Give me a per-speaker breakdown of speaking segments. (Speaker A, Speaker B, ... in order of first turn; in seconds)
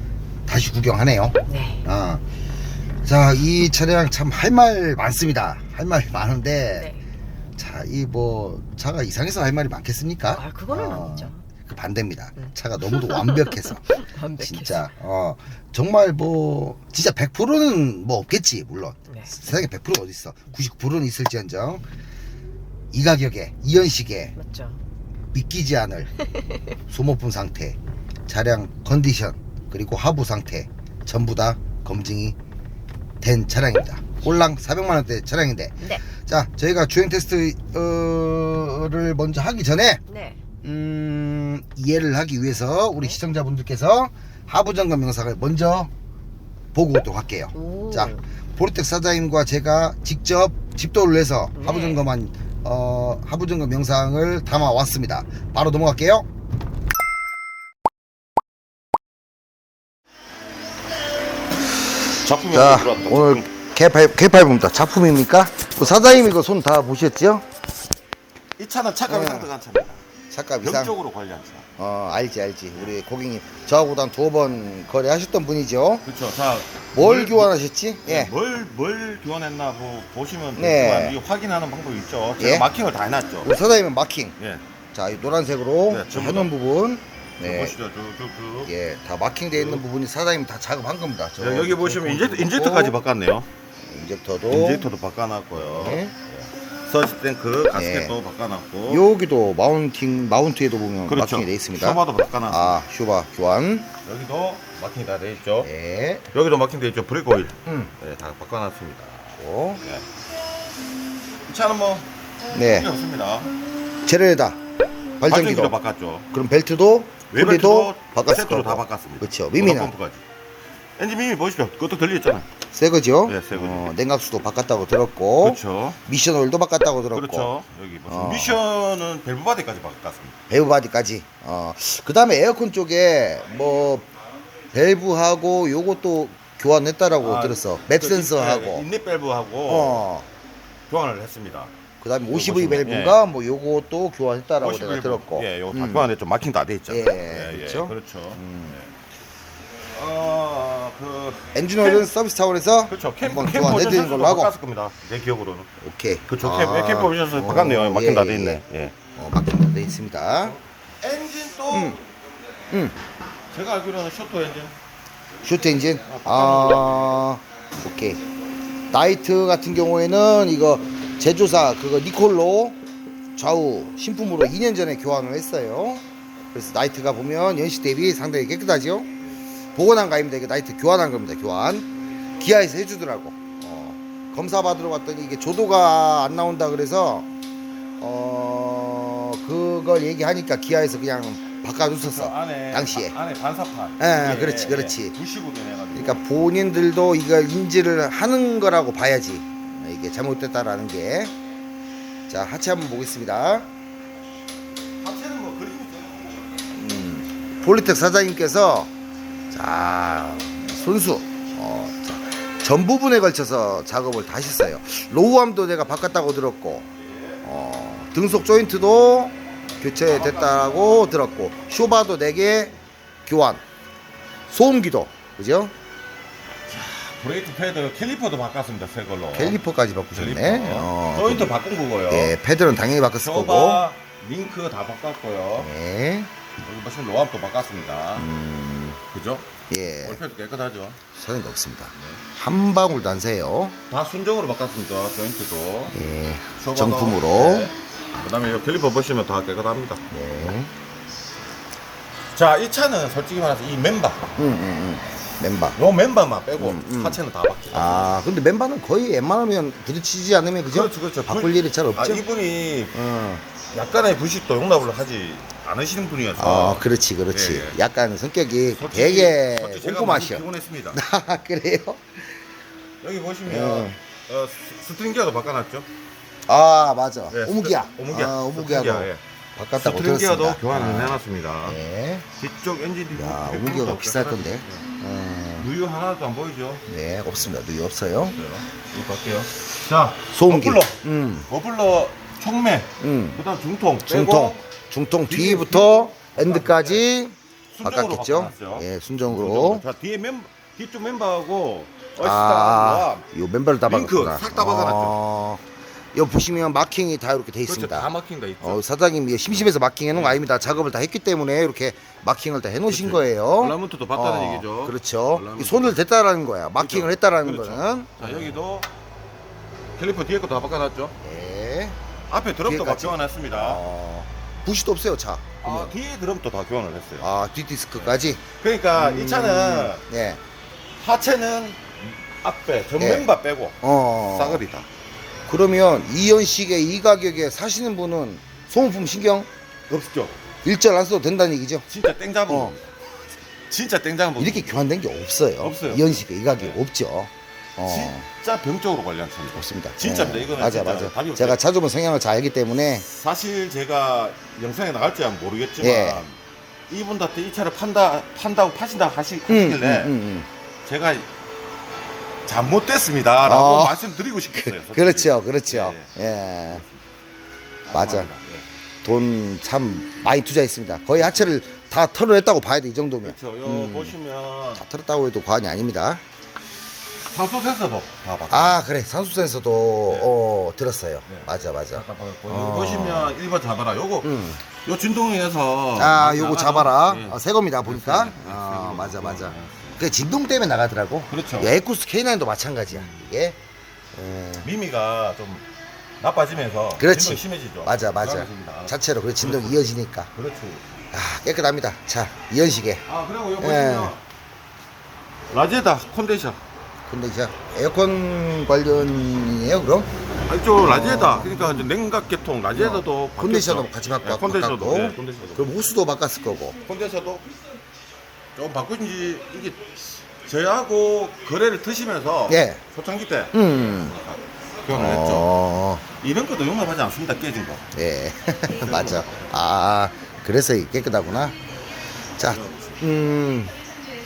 Speaker A: 0.5-2.2, 3.0-6.9, 7.5-21.8, 22.9-24.3, 25.3-26.1, 26.9-32.4, 33.2-40.0, 40.6-45.9, 46.7-56.2, 62.4-67.4, 69.1-69.5, 70.3-70.9, 71.8-76.1, 76.9-78.3, 80.5-81.2, 82.4-82.7, 83.4-84.3, 84.9-87.8, 88.7-93.0, 93.8-94.9, 95.5-96.1, 97.7-98.2, 98.9-103.9, 105.6-106.3, 107.7-107.9, 109.4-109.8, 112.5-112.9, 114.0-114.6, 115.2-115.8, 116.3-119.9, 122.7-127.5, 128.1-128.6, 130.5-134.1, 134.7-138.8, 139.7-140.3, 142.0-146.1, 146.9-148.8, 151.5-154.5, 155.8-160.6, 161.7-162.0, 162.7-162.9, 165.4-168.2, 168.9-172.8, 173.3-179.1, 179.7-181.9, 182.4-187.3, 188.0-193.1, 194.0-195.1, 195.9-201.3, 202.3-203.7, 206.7-208.9, 209.5-216.9, 217.4-223.6, 224.5-225.7, 229.3-231.5, 232.1-233.9, 235.6-236.3, 238.1-239.0, 239.7-240.2, 241.1-243.8, 245.9-247.7, 250.1-250.7, 254.4-255.8, 256.6-257.2, 257.7-262.3, 262.9-263.4, 266.4-272.4, 273.4-274.0, 276.5-282.3, 283.1-285.7, 286.9-288.4, 290.3-291.5, 293.0-293.4, 294.0-299.8, 302.2-305.6, 306.1-308.1, 308.6-318.5, 321.2-322.0, 322.6-325.9, 327.2-330.4, 333.0-333.3, 333.8-334.6, 335.5-339.5, 340.6-341.9, 342.5-342.7, 344.4-348.3, 349.5-353.1, 355.8-356.2, 359.5-360.5, 363.4-366.8, 367.9-368.3, 369.0-374.1, 374.7-376.2, 378.5-383.4, 384.2-384.6, 385.9-393.6, 394.1-394.7, 397.0-400.3, 401.1-403.1, 403.6-404.2, 407.1-410.1, 410.8-411.9, 412.7-416.8, 422.5-422.8, 423.5-424.1, 424.9-426.0, 427.9-431.6, 432.4-433.7
Speaker B: 1.4-1.8, 6.7-7.0, 10.3-11.4, 12.4-14.9, 19.1-19.3, 24.4-24.8, 26.3-26.7, 40.1-40.4, 47.5-48.2, 51.5-52.1
Speaker C: 62.2-63.5, 68.6-70.0, 70.6-71.7, 76.0-77.5, 78.0-83.5, 85.9-86.5, 87.4-88.7, 89.5-89.8, 91.4-93.5, 94.5-99.0, 101.1-102.8, 104.0-105.7, 106.3-110.0, 111.5-113.5, 115.2-116.3, 117.3-120.2, 121.0-122.5, 123.2-123.9, 125.4-126.0, 127.1-130.3, 137.2-140.0, 140.9-141.7, 142.2-143.2, 144.6-148.9, 149.9-152.1, 152.9-155.7, 156.3-158.9, 161.0-162.0, 163.5-164.7, 166.1-167.2, 192.0-196.2, 205.0-206.6, 217.1-217.4, 220.0-221.0, 226.7-229.6, 230.1-232.3, 233.2-235.7, 236.6-238.3, 239.1-239.5, 240.0-241.0, 243.9-245.9, 246.6-250.0, 252.3-254.3, 255.8-258.1, 260.6-262.9, 263.7-267.8, 268.7-271.0, 273.0-275.9, 277.3-279.2, 279.8-281.8, 282.4-284.8, 285.6-286.8, 288.3-294.6, 295.3-297.0, 297.7-303.2, 303.9-305.2, 307.6-308.8, 310.1-310.8, 312.9-316.0, 316.8-318.9, 319.9-321.1, 322.3-323.8, 325.6-327.3, 327.9-330.0, 331.0-334.9, 339.9-340.4, 341.9-342.9, 343.7-344.7, 345.6-346.8, 347.8-351.6, 353.1-356.4, 356.9-360.1, 360.8-361.3, 362.4-366.1, 367.9-368.6, 371.2-371.5, 373.2-374.8, 377.3-378.8, 380.1-380.3, 381.3-390.0, 391.3-391.8, 392.9-393.2, 394.6-395.6, 396.2-399.8, 400.3-400.9, 403.1-404.2, 405.5-406.6, 410.4-415.7, 416.8-417.5, 418.5-425.5, 426.1-427.8, 428.8-429.4, 432.4-433.0